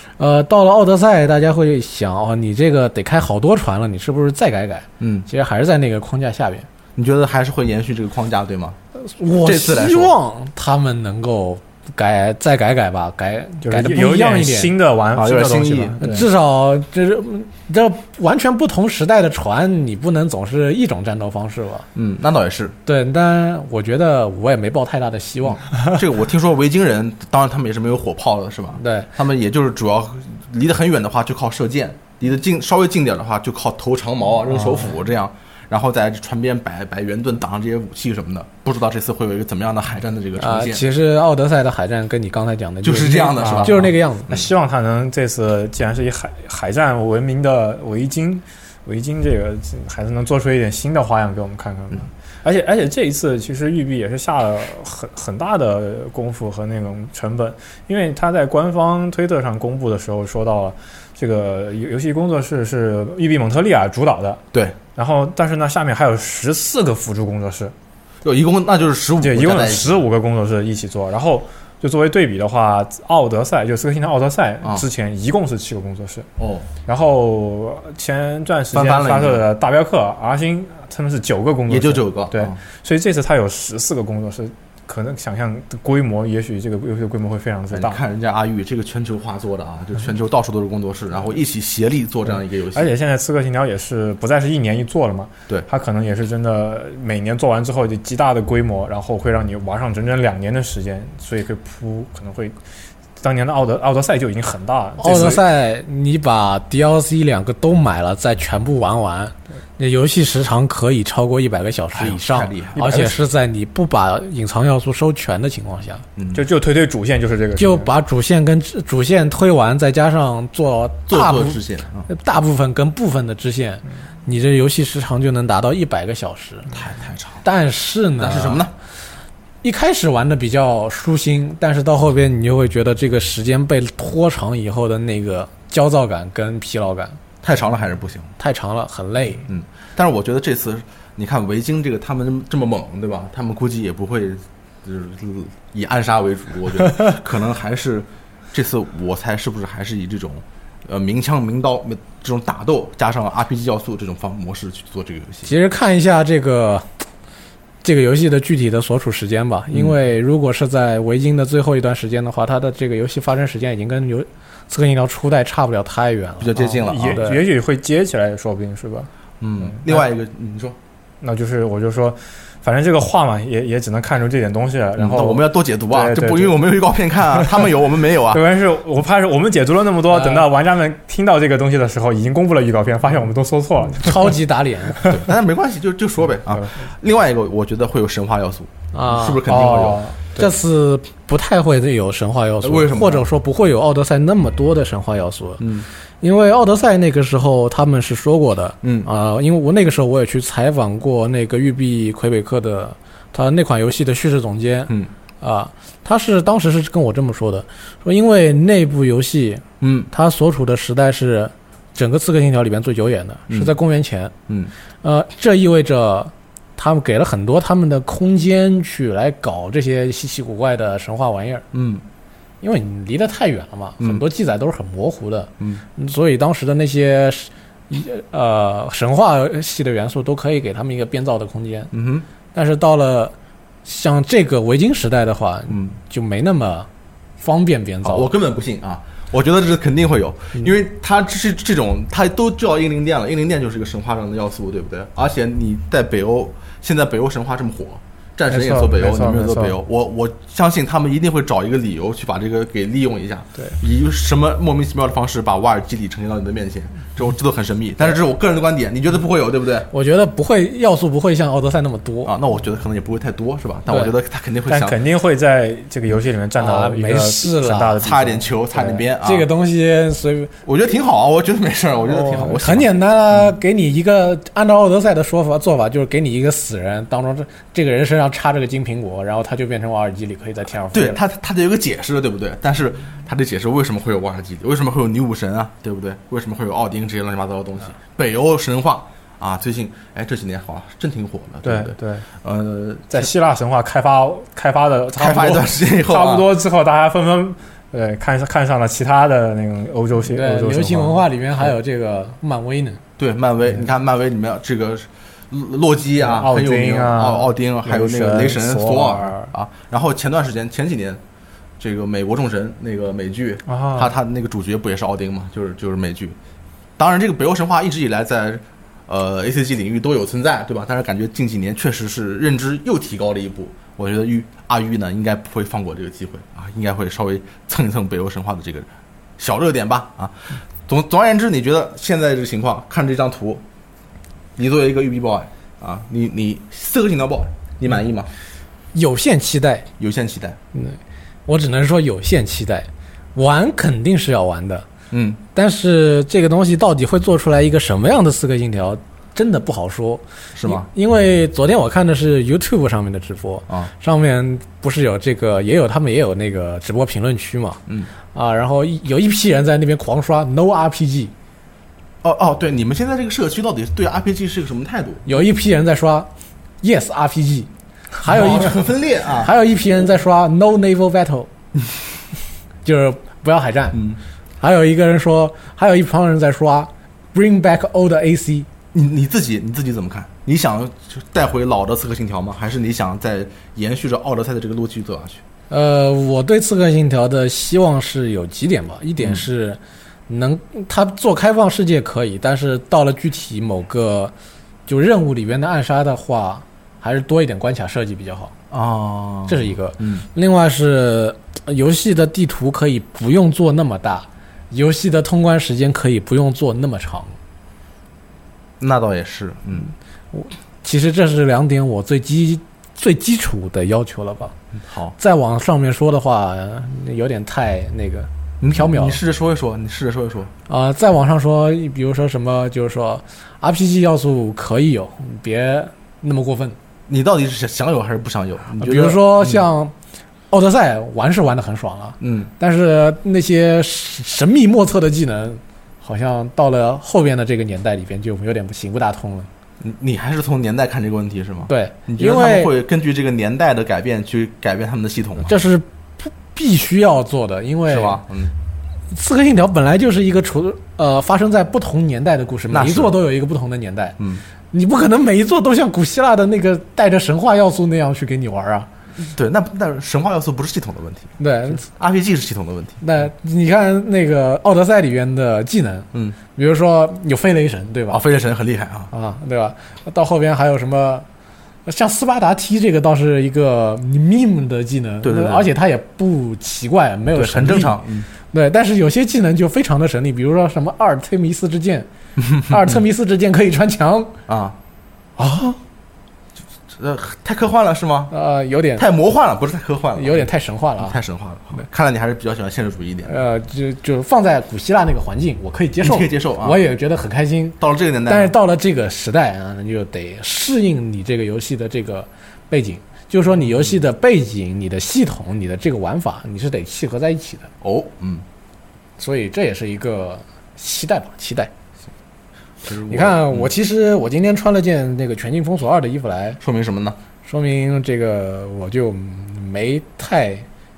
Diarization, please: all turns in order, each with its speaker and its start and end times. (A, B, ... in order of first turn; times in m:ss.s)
0:00.2-0:06.7 A
0:05.0-0:05.3 B
0:07.0-0:08.8 B
0:09.0-0:14.7 A
0:09.4-0:10.1 B
0:13.6-0:16.3 C
0:15.1-0:16.2 B
0:16.0-0:21.9 A
0:21.9-0:22.7 B
0:22.8-0:25.6 A
0:25.8-0:40.8 B
0:28.8-0:29.1 A
0:34.5-0:34.8 A
0:40.4-0:44.3 A
0:42.8-0:44.4 B
0:43.4-1:04.4 C
1:05.0-1:07.7 C
1:08.2-1:10.0 B
1:09.2-1:16.3 C
1:16.4-1:16.7 B
1:16.8-1:28.0 C
1:18.7-1:19.4 B
1:21.7-1:22.6 B
1:27.7-1:32.9 B
1:32.7-1:42.6 C
1:43.2-1:45.4 C
1:45.0-1:56.0 A
1:51.9-1:53.2 B
1:52.8-1:53.1 C
1:56.2-1:56.4 B
1:56.3-1:57.9 C
1:57.6-2:06.8 A
2:01.1-2:02.1 B
2:06.7-2:07.4 B
2:07.4-2:08.6 A
2:08.2-2:08.7 B
2:09.6-2:17.2 A
2:17.4-2:18.3 B
2:18.4-2:19.5 A
2:19.5-2:35.5 B
2:35.4-2:36.8 A
2:37.8-2:47.4 A
2:46.4-2:47.3 B
2:46.6-2:49.1 C
2:49.4-2:50.8 B
2:49.6-2:50.0 C
2:51.2-2:56.7 C
2:55.0-2:58.4 B
2:57.3-2:57.7 C
2:58.3-3:04.4 C
3:00.1-3:00.5 A
3:04.0-3:05.1 A
3:05.1-3:10.0 B
3:08.9-3:09.4 A
3:09.4-3:10.5 C
3:10.4-3:15.6 A
3:12.6-3:13.2 B
3:15.6-3:15.9 B
3:16.2-3:34.3 A
3:18.8-3:19.1 B
3:29.8-3:30.1 B
3:34.5-3:34.7 B
3:35.0-3:41.6 A
3:41.7-3:42.0 B
3:42.6-3:51.9 A
3:51.9-3:52.2 B
3:52.5-3:53.3 A
3:53.8-3:56.9 A
3:57.4-3:58.3 A
3:58.0-4:19.9 B
4:08.5-4:09.8 C
4:19.9-4:22.3 A
4:22.2-4:25.0 B
4:24.7-4:29.0 C
4:26.6-4:28.0 A
4:28.0-4:29.5 B
4:29.2-4:30.5 A
4:30.6-4:32.9 B
4:32.2-4:41.2 A
4:40.9-4:53.3 B
4:51.6-4:52.2 C
4:53.1-5:01.2 C
4:55.2-4:56.5 B
5:00.3-5:03.0 A
5:03.2-5:11.2 B
5:06.2-5:09.5 C
5:11.8-5:16.4 B
5:13.7-5:14.1 C
5:17.0-5:28.9 B
5:29.4-5:33.6 B
5:34.6-5:38.3 B
5:38.9-5:39.9 A
5:40.0-5:40.6 B
5:40.7-5:44.8 A
5:45.1-5:45.4 B
5:45.5-5:57.8 A
5:50.5-5:50.9 B
5:58.3-6:01.3 A
6:02.2-6:05.2 B
6:05.2-6:06.3 A
6:06.8-6:07.7 A
6:08.2-6:11.5 A
6:08.2-6:09.5 B
6:12.8-6:14.0 A
6:13.9-6:14.2 B
6:14.6-6:18.7 A
6:18.9-6:25.4 B
6:25.7-6:34.3 A
6:29.2-6:29.4 B
6:34.9-6:38.5 A
6:38.7-6:40.2 B
6:39.5-6:47.4 A
6:48.8-6:49.9 B
6:50.3-6:54.5 A
6:54.8-6:55.1 B
6:55.2-6:59.2 A
6:58.6-7:00.5 B
7:00.7-7:06.8 A
7:07.1-7:09.6 B
7:08.8-7:09.9 A
7:10.5-7:19.5 A
7:12.2-7:12.5 B
7:19.8-7:25.5 B
7:21.7-7:22.7 A
7:25.4-7:28.2 A
7:27.9-7:28.5 B
7:29.1-7:34.2 A
7:32.7-7:33.2 B
7:34.7-7:38.9 A
7:39.2-7:43.0 B
7:41.4-7:41.8 A
7:43.0-7:48.2 A
7:48.1-7:49.1 B
7:49.1-7:51.2 A
7:51.8-8:04.3 A
7:55.2-7:55.7 B
7:57.3-7:58.3 B
8:02.4-8:02.8 B
8:04.5-8:04.8 B
8:05.4-8:05.8 A
8:06.9-8:08.3 B
8:08.3-8:09.1 A
8:09.0-8:10.5 B
8:10.2-8:11.2 A
8:11.0-8:13.3 B
8:13.2-8:27.7 A
8:16.0-8:16.8 B
8:17.8-8:18.5 B
8:27.8-8:28.4 B
8:29.2-8:31.7 A
8:32.8-8:33.7 B
8:33.1-8:36.6 A
8:36.6-8:37.2 B
8:37.4-8:40.6 A